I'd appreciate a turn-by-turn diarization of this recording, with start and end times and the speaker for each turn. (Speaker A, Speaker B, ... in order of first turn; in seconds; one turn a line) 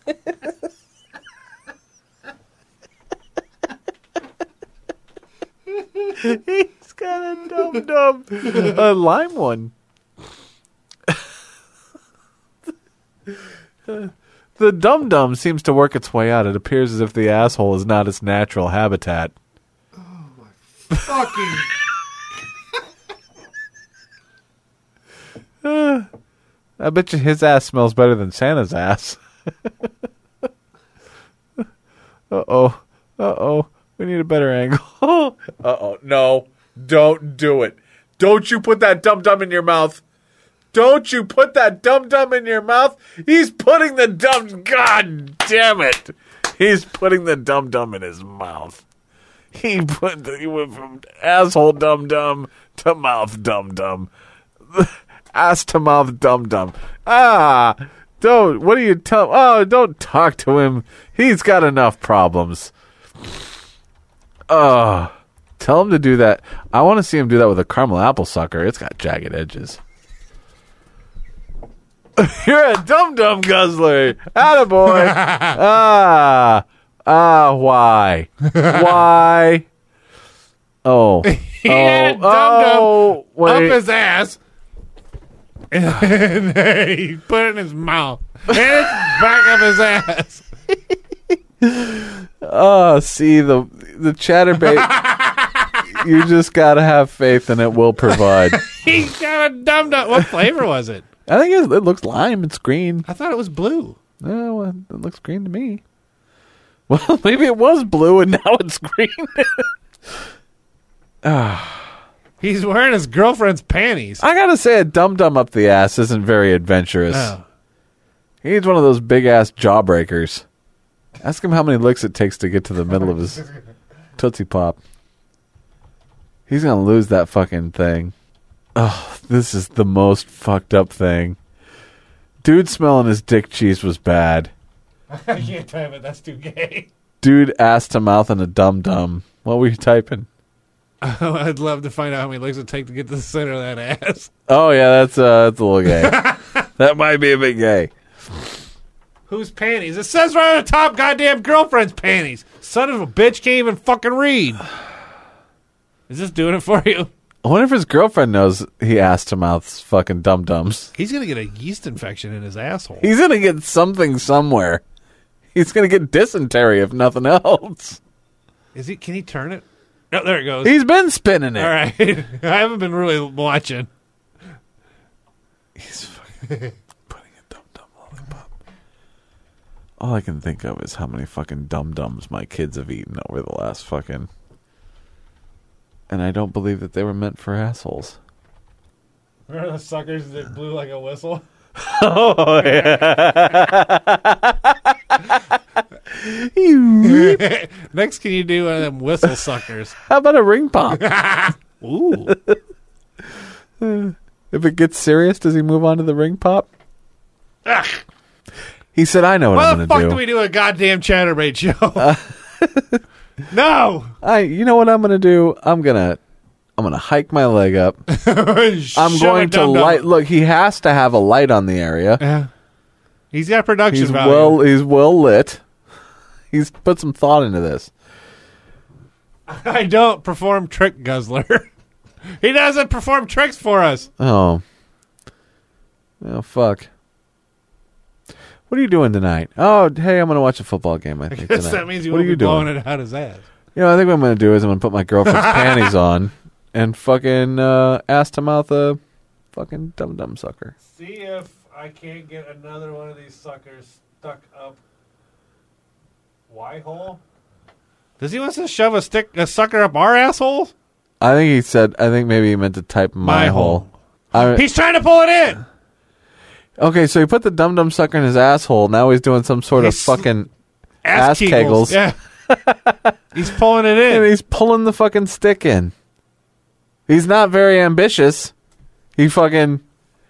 Speaker A: 6.1-9.7
Speaker A: 13.3-19.3
Speaker B: 19.9-21.7
Speaker A: 25.6-26.1
Speaker A: 26.8-29.2
Speaker A: 32.3-40.0
Speaker A: 40.7-48.8
Speaker A: 49.5-54.1
Speaker A: 54.7-62.7
Speaker A: 64.5-69.8
Speaker A: 72.2-79.7
Speaker B: 74.9-75.6
Speaker B: 78.5-78.8
Speaker A: 80.8-83.8
Speaker B: 81.2-84.4
Speaker B: 85.7-90.5
Speaker A: 91.6-95.0
Speaker B: 94.6-95.8
Speaker A: 95.9-98.7
Speaker B: 98.2-101.0
Speaker A: 101.3-103.0
Speaker B: 103.0-104.0
Speaker A: 104.2-105.8
Speaker A: 106.9-109.7
Speaker A: 111.2-111.9
Speaker B: 112.4-114.2
Speaker A: 114.2-117.3
Speaker B: 117.1-117.4
Speaker A: 118.4-120.4
Speaker A: 121.2-123.5
Speaker A: 124.2-124.8
Speaker A: 126.5-128.1
Speaker A: 128.7-131.4
Speaker A: 132.4-134.5
Speaker B: 135.1-136.9
Speaker A: 137.2-140.3
Speaker B: 141.0-144.3
Speaker A: 144.5-146.2
Speaker B: 145.9-146.7
Speaker A: 146.8-147.9
Speaker B: 149.3-154.6
Speaker B: 156.1-157.1
Speaker A: 157.4-160.9
Speaker B: 160.9-163.1
Speaker A: 163.0-164.8
Speaker A: 165.5-168.0
Speaker B: 168.7-170.8
Speaker A: 170.6-171.8
Speaker B: 171.5-173.9
Speaker A: 175.8-176.3
Speaker B: 176.4-176.7
Speaker A: 177.1-178.4
Speaker A: 180.0-184.3
Speaker A: 186.1-188.2
Speaker B: 189.5-191.4
Speaker A: 191.8-195.4
Speaker B: 192.6-193.6
Speaker A: 196.1-197.4
Speaker B: 197.0-200.0
Speaker A: 200.1-201.1
Speaker B: 200.9-202.3
Speaker A: 202.3-202.6
Speaker A: 203.8-206.7
Speaker B: 207.6-208.0
Speaker A: 208.9-210.2
Speaker B: 209.5-212.2
Speaker A: 212.0-213.0
Speaker B: 213.5-214.1
Speaker A: 214.2-216.2
Speaker A: 216.8-218.0
Speaker B: 218.1-220.1
Speaker A: 218.9-222.2
Speaker B: 222.2-222.5
Speaker B: 223.3-224.6
Speaker A: 223.9-225.6
Speaker A: 226.5-227.9
Speaker B: 229.5-231.7
Speaker B: 232.4-234.1
Speaker A: 234.2-234.6
Speaker A: 236.2-236.9
Speaker A: 238.7-242.7
Speaker B: 241.3-243.4
Speaker A: 243.7-249.0
Speaker B: 245.2-245.9
Speaker A: 249.5-250.7
Speaker B: 250.8-254.8
Speaker B: 256.5-257.2
Speaker B: 258.2-260.7
Speaker A: 261.2-264.6
Speaker B: 263.2-265.6
Speaker A: 266.8-270.5
Speaker B: 269.7-270.3
Speaker B: 271.0-272.2
Speaker A: 271.1-273.1
Speaker B: 273.3-274.3
Speaker A: 274.1-275.9
Speaker A: 277.1-278.5
Speaker A: 279.1-279.8